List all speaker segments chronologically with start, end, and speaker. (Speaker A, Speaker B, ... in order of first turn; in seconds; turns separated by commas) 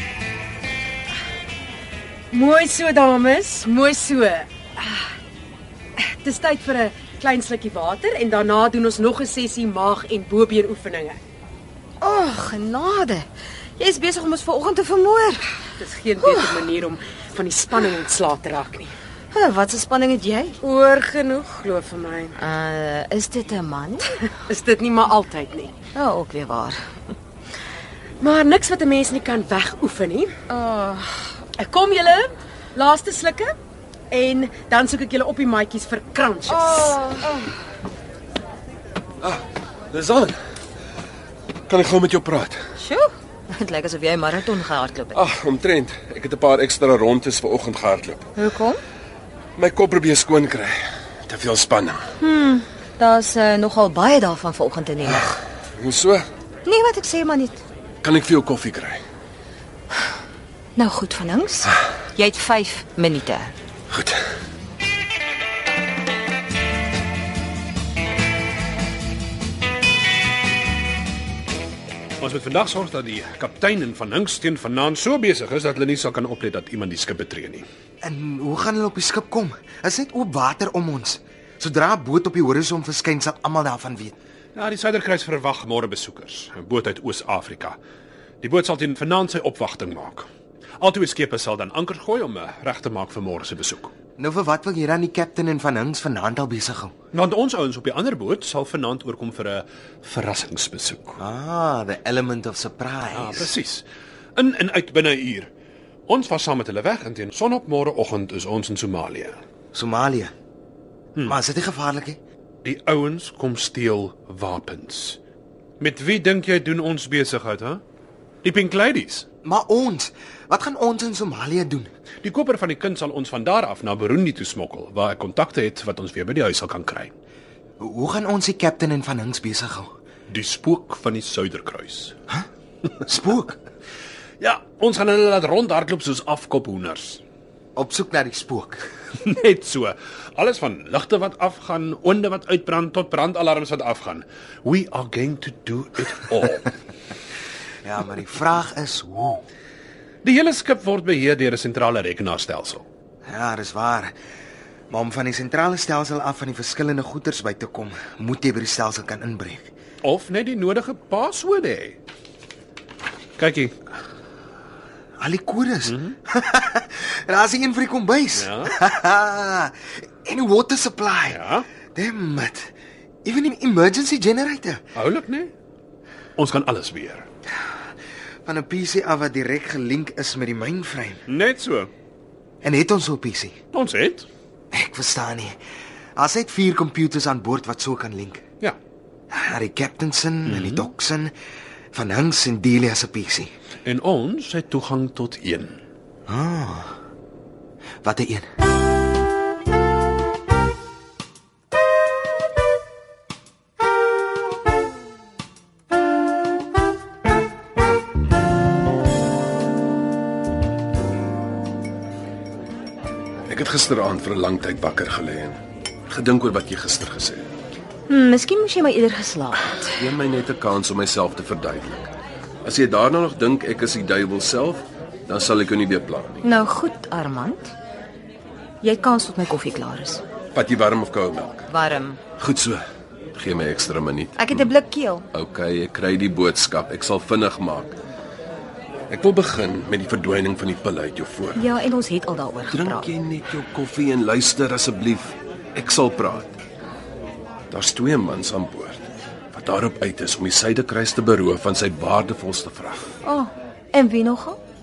Speaker A: 2.3-4.5, Speaker A: 6.2-11.2, Speaker B: 12.0-13.3, Speaker B: 13.8-15.4, Speaker A: 15.8-18.9, Speaker B: 16.2-16.5, Speaker B: 19.3-20.6, Speaker A: 20.6-22.4, Speaker B: 22.4-24.2, Speaker A: 24.4-25.8, Speaker B: 25.9-26.8, Speaker A: 28.2-30.3, Speaker B: 30.5-31.3, Speaker A: 31.6-33.5, Speaker A: 34.1-37.0, Speaker B: 36.5-37.5, Speaker C: 39.2-40.4, Speaker C: 41.7-42.6, Speaker B: 42.8-45.2, Speaker C: 45.1-48.3, Speaker B: 48.4-48.8, Speaker C: 49.6-52.0, Speaker B: 52.2-55.3, Speaker C: 55.0-56.3, Speaker B: 56.7-57.6, Speaker C: 58.0-59.0, Speaker B: 60.8-63.5, Speaker C: 63.9-64.2, Speaker D: 72.2-77.7, Speaker E: 78.0-84.2, Speaker D: 84.5-87.8, Speaker D: 88.4-90.3, Speaker D: 90.8-93.9, Speaker E: 94.2-96.9, Speaker D: 97.1-101.2, Speaker E: 101.2-103.5, Speaker D: 103.1-103.8, Speaker D: 104.4-105.5, Speaker D: 106.1-109.4, Speaker E: 109.7-110.3, Speaker E: 111.3-112.2, Speaker D: 112.6-115.2, Speaker D: 115.8-117.8, Speaker D: 118.4-119.3, Speaker E: 119.4-121.9, Speaker D: 122.2-127.1, Speaker E: 127.8-129.9, Speaker D: 130.3-132.2, Speaker E: 133.0-133.5, Speaker D: 134.4-137.2, Speaker E: 137.8-138.9, Speaker D: 139.2-146.7, Speaker E: 147.8-149.4, Speaker D: 150.2-152.8, Speaker E: 153.3-154.2, Speaker E: 154.9-159.7, Speaker D: 160.0-162.0, Speaker D: 163.4-163.8, Speaker E: 165.2-171.4, Speaker D: 165.9-166.2, Speaker D: 168.4-168.7, Speaker D: 171.3-171.7, Speaker E: 171.9-172.7, Speaker E: 173.2-174.8, Speaker D: 174.9-175.5, Speaker D: 176.4-177.3, Speaker E: 178.5-181.2, Speaker D: 181.3-181.9, Speaker E: 182.6-183.6, Speaker D: 183.7-184.3, Speaker E: 184.7-185.6, Speaker E: 186.2-188.4, Speaker E: 189.3-191.3, Speaker D: 190.5-190.8, Speaker E: 191.9-193.5, Speaker D: 193.8-195.8, Speaker E: 196.3-196.9, Speaker E: 198.0-198.5, Speaker C: 213.5-217.5, Speaker B: 218.1-220.1, Speaker C: 219.9-222.1, Speaker C: 222.6-226.4, Speaker B: 226.4-227.7, Speaker B: 228.8-230.2, Speaker C: 230.5-231.7, Speaker B: 231.7-232.2, Speaker C: 232.4-232.8, Speaker C: 233.3-234.7, Speaker B: 234.4-235.3, Speaker C: 235.3-238.0, Speaker C: 239.1-241.7, Speaker B: 241.6-243.1, Speaker C: 242.7-246.5, Speaker C: 247.7-249.0, Speaker C: 249.5-253.1, Speaker B: 253.2-254.6